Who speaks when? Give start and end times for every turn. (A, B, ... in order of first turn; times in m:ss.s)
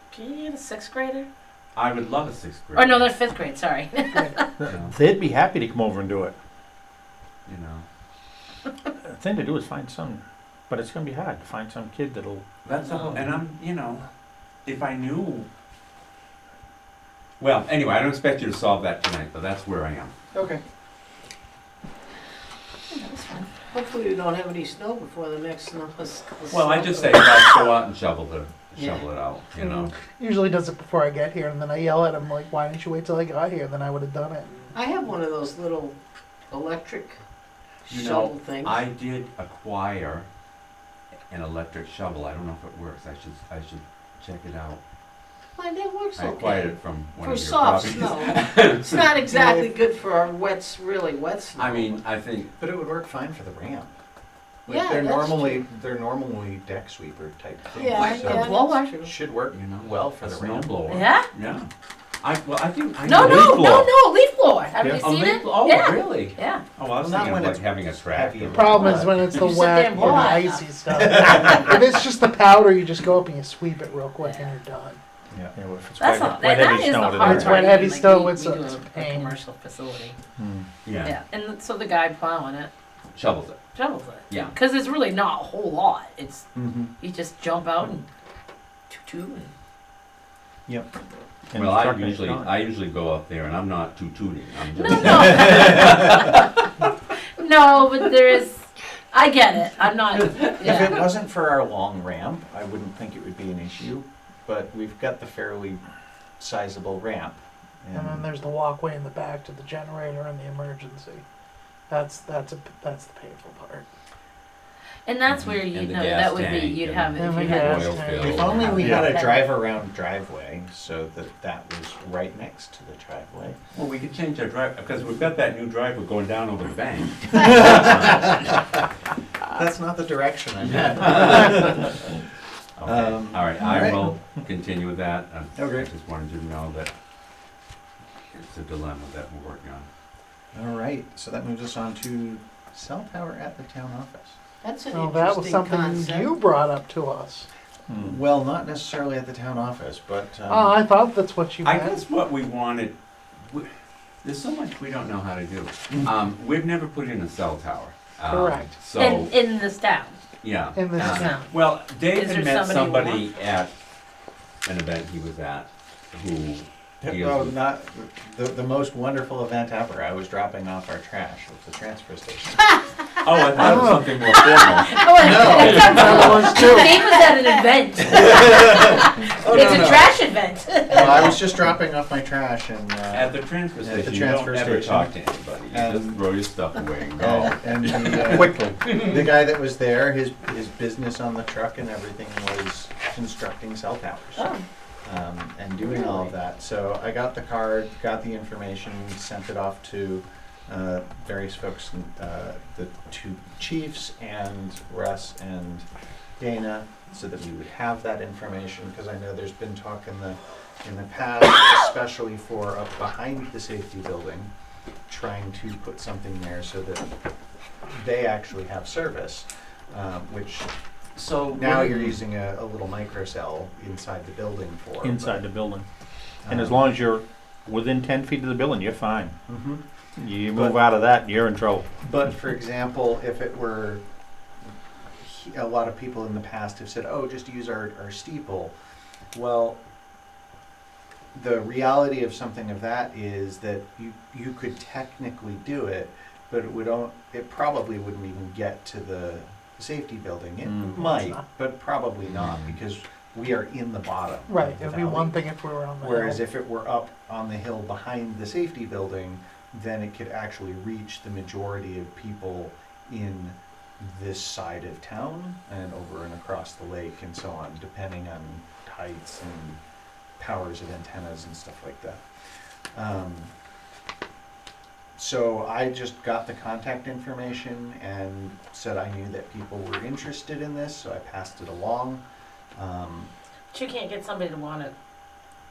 0:00.1-0:01.3 A
0:01.8-0:03.2 B
0:02.8-0:04.5 A
0:04.6-0:06.4 C
0:04.7-0:05.0 B
0:07.5-0:07.9 B
0:09.0-0:12.4 C
0:12.6-0:14.0 B
0:14.6-0:15.5 B
0:17.4-0:20.1 B
0:22.9-0:23.5 A
0:23.7-0:27.2 D
0:26.5-0:29.9 B
0:29.6-0:34.5 E
0:34.7-0:36.0 D
0:36.5-0:37.2 D
0:37.9-0:38.8 D
0:37.9-0:40.3 B
0:41.3-0:44.8 B
0:45.6-0:52.0 D
0:46.2-0:49.1 B
0:51.6-0:52.5 B
0:52.6-0:53.9 F
0:54.7-0:55.6 D
0:54.7-1:00.8 F
0:57.7-0:59.1 D
0:57.8-0:59.0 A
0:59.5-1:01.7 B
1:00.9-1:01.3 A
1:02.2-1:03.8 B
1:03.0-1:06.6 A
1:03.2-1:03.9 C
1:05.0-1:09.4 B
1:07.0-1:09.4 F
1:08.5-1:15.0 E
1:08.8-1:11.5 A
1:10.0-1:10.3 F
1:10.9-1:11.8 F
1:14.2-1:14.5 A
1:15.6-1:17.6 C
1:16.0-1:20.2 A
1:17.2-1:17.5 F
1:17.3-1:19.4 E
1:20.4-1:20.7 C
1:20.8-1:21.2 B
1:21.0-1:22.7 A
1:23.1-1:23.6 B
1:23.8-1:26.5 A
1:24.3-1:24.6 B
1:26.6-1:26.9 F
1:27.0-1:28.1 A
1:28.9-1:29.5 A
1:31.5-1:32.5 C
1:31.5-1:36.2 B
1:34.7-1:36.7 A
1:37.4-1:41.1 A
1:40.5-1:45.8 F
1:46.4-1:48.3 F
1:47.9-1:51.2 E
1:51.9-1:53.8 E
1:55.1-1:59.5 A
1:55.3-1:58.9 B
1:57.2-1:58.9 E
1:58.2-2:03.6 F
2:03.7-2:08.4 B
2:07.4-2:08.6 F
2:09.5-2:12.1 F
2:10.6-2:11.8 B
2:12.8-2:16.9 B
2:12.8-2:14.1 F
2:15.6-2:15.9 F
2:18.3-2:19.9 B
2:20.5-2:24.4 F
2:24.6-2:26.3 D
2:24.9-2:27.5 E
2:28.0-2:30.8 F
2:30.5-2:32.0 E
2:31.6-2:33.7 B
2:34.2-2:39.3 B
2:38.3-2:38.8 E
2:39.0-2:40.2 A
2:40.4-2:43.7 B
2:40.8-2:41.4 E
2:41.0-2:41.5 A
2:42.1-2:43.3 A
2:44.6-2:47.6 B
2:47.0-2:52.6 F
2:53.2-2:56.2 B
2:53.6-2:54.1 E
2:54.2-3:01.4 A
2:55.2-2:56.6 F
2:55.6-2:57.2 E
2:58.1-3:00.2 F
3:00.9-3:05.2 F
3:03.1-3:08.6 B
3:05.7-3:06.2 F
3:07.2-3:14.5 F
3:08.4-3:08.8 C
3:14.4-3:14.6 A
3:15.0-3:25.9 F
3:15.8-3:16.3 A
3:26.4-3:34.5 F
3:35.1-3:37.1 F
3:37.9-3:40.7 F
3:41.2-3:42.2 B
3:41.5-3:45.5 F
3:45.0-3:45.8 C
3:46.4-3:46.8 F
3:46.5-3:49.4 C
3:49.5-3:49.8 F
3:50.2-3:52.0 C
3:52.0-3:54.0 F
3:55.2-3:58.7 F
3:59.3-3:59.8 F
4:01.3-4:15.4 F
4:10.6-4:10.9 C
4:10.9-4:11.4 E
4:14.5-4:16.4 E
4:16.0-4:29.8 F
4:30.4-4:32.2 F
4:32.9-4:33.5 F
4:35.2-4:42.2 F
4:42.7-4:43.3 F
4:43.7-4:44.9 A